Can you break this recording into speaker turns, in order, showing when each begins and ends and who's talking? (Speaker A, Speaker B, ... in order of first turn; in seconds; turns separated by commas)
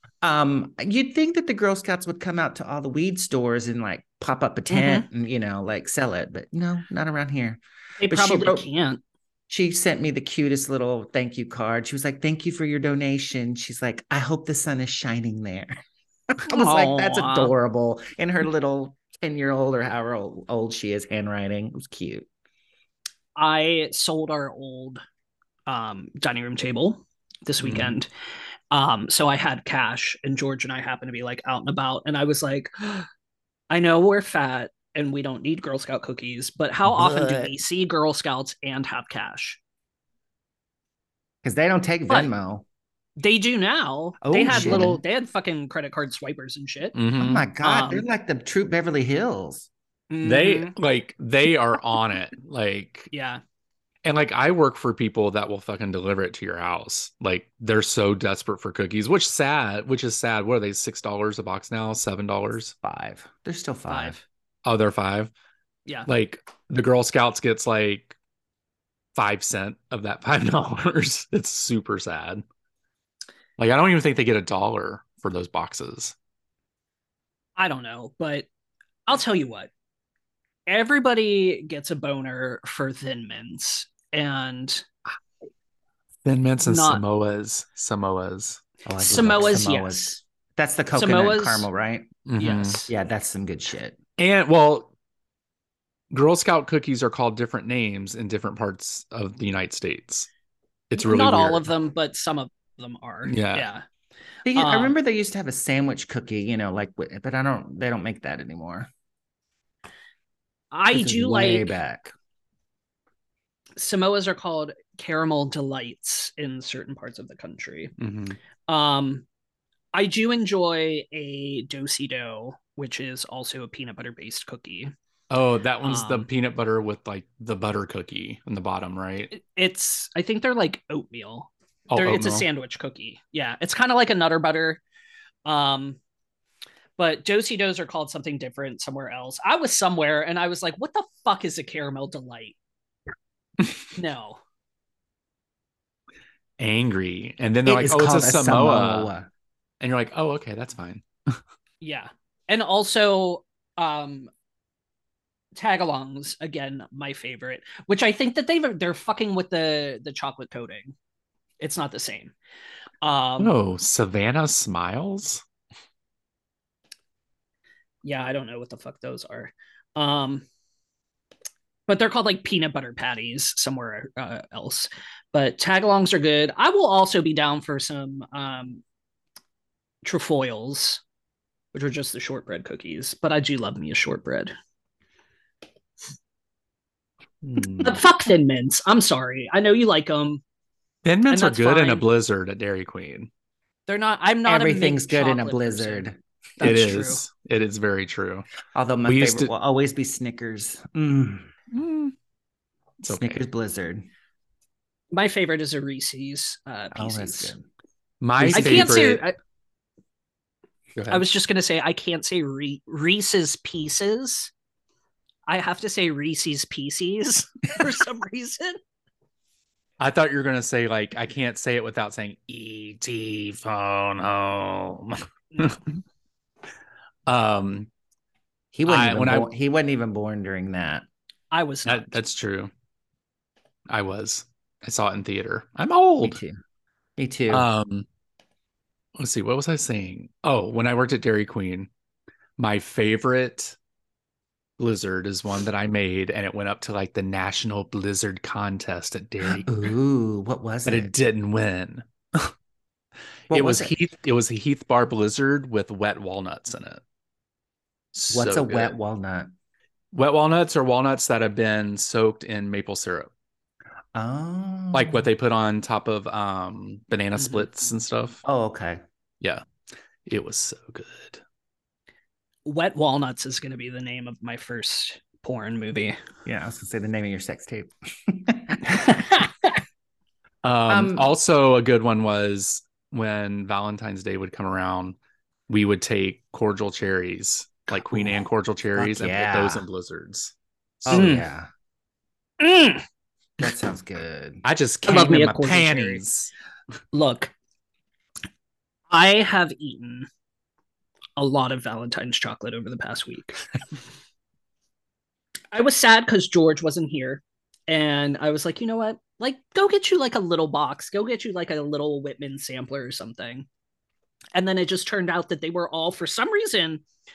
Speaker A: 0.2-8.7, Speaker B: 4.7-5.1, Speaker B: 8.0-9.0, Speaker A: 9.5-15.8, Speaker A: 16.3-22.3, Speaker B: 16.5-17.5, Speaker B: 23.4-25.0, Speaker B: 25.7-28.1, Speaker C: 27.6-27.9, Speaker B: 28.7-33.1, Speaker B: 33.7-39.6, Speaker A: 36.9-37.5, Speaker A: 41.4-42.6, Speaker B: 43.2-47.0, Speaker A: 44.2-45.0, Speaker C: 44.5-44.9, Speaker C: 47.0-47.5, Speaker A: 47.2-49.7, Speaker B: 47.6-48.1, Speaker B: 50.1-50.7, Speaker C: 50.2-53.1, Speaker B: 53.1-53.4, Speaker C: 54.0-62.8, Speaker A: 62.8-64.2, Speaker B: 63.9-64.2, Speaker C: 64.7-65.3, Speaker C: 66.1-68.2, Speaker C: 69.2-72.4, Speaker C: 73.6-76.2, Speaker B: 77.6-78.5, Speaker B: 79.1-79.7, Speaker B: 80.7-84.8, Speaker C: 86.2-88.6, Speaker B: 86.6-87.0, Speaker A: 88.8-92.1, Speaker B: 89.0-90.2, Speaker B: 90.9-91.7, Speaker C: 92.3-92.8, Speaker B: 92.4-92.9, Speaker A: 92.9-94.0, Speaker C: 94.2-94.9, Speaker C: 96.1-100.3, Speaker C: 100.9-101.7, Speaker B: 101.0-103.8, Speaker C: 103.3-103.7, Speaker A: 104.5-108.9, Speaker B: 104.5-105.0, Speaker B: 110.7-111.7, Speaker A: 110.9-112.1, Speaker B: 113.8-117.9, Speaker C: 118.0-118.4, Speaker B: 118.7-119.2, Speaker B: 119.9-124.9, Speaker C: 125.3-129.3, Speaker B: 125.8-126.3, Speaker B: 129.3-134.8, Speaker C: 131.9-132.4, Speaker B: 135.4-136.0, Speaker B: 137.0-142.6, Speaker B: 143.9-144.4, Speaker C: 146.6-149.1, Speaker A: 147.7-149.3, Speaker C: 149.8-151.4, Speaker B: 151.8-154.3, Speaker B: 155.6-160.9, Speaker B: 161.6-162.3, Speaker B: 163.0-163.5, Speaker C: 163.4-165.4, Speaker B: 168.0-170.4, Speaker B: 171.9-178.8, Speaker B: 180.0-181.0, Speaker B: 181.7-184.5, Speaker C: 187.4-188.0, Speaker B: 187.8-190.4, Speaker C: 191.0-193.3, Speaker B: 191.3-192.1, Speaker B: 193.9-196.1, Speaker A: 194.5-196.2, Speaker B: 196.6-197.2, Speaker C: 196.6-198.5, Speaker A: 198.7-201.5, Speaker C: 199.1-199.5, Speaker C: 201.7-202.1, Speaker C: 203.0-203.4, Speaker A: 203.0-204.1, Speaker B: 205.1-207.5, Speaker A: 206.9-207.7, Speaker C: 208.2-209.2, Speaker A: 208.4-209.1, Speaker B: 208.5-209.4, Speaker C: 210.9-211.2, Speaker B: 211.1-214.5, Speaker B: 215.5-218.8, Speaker C: 220.0-225.9, Speaker B: 225.5-225.8, Speaker C: 227.3-227.9, Speaker A: 228.7-231.1, Speaker C: 228.9-229.5, Speaker B: 231.5-232.2, Speaker C: 231.9-232.7, Speaker C: 233.9-236.4, Speaker A: 236.2-236.6, Speaker A: 237.2-237.7, Speaker C: 237.5-238.1, Speaker C: 239.2-241.9, Speaker C: 242.6-243.8, Speaker C: 244.8-249.8, Speaker A: 249.4-251.1, Speaker C: 250.8-252.5, Speaker A: 253.5-253.9, Speaker C: 253.5-257.0, Speaker C: 258.1-258.9, Speaker A: 258.3-259.5, Speaker C: 260.1-263.3, Speaker A: 264.1-265.3, Speaker C: 264.9-268.4, Speaker B: 267.4-267.7, Speaker A: 268.4-269.0, Speaker C: 270.3-271.4, Speaker B: 272.6-276.2, Speaker A: 276.4-279.1, Speaker C: 280.6-285.2, Speaker A: 280.9-281.3, Speaker C: 285.7-291.4, Speaker A: 288.1-288.4, Speaker A: 289.0-289.9, Speaker A: 291.1-291.7, Speaker B: 291.1-291.4, Speaker B: 292.6-293.0, Speaker A: 293.6-294.6, Speaker C: 294.6-296.5, Speaker B: 295.1-296.2, Speaker B: 297.1-297.5, Speaker B: 299.1-300.3, Speaker B: 301.4-303.6, Speaker B: 305.7-313.7, Speaker B: 314.6-317.0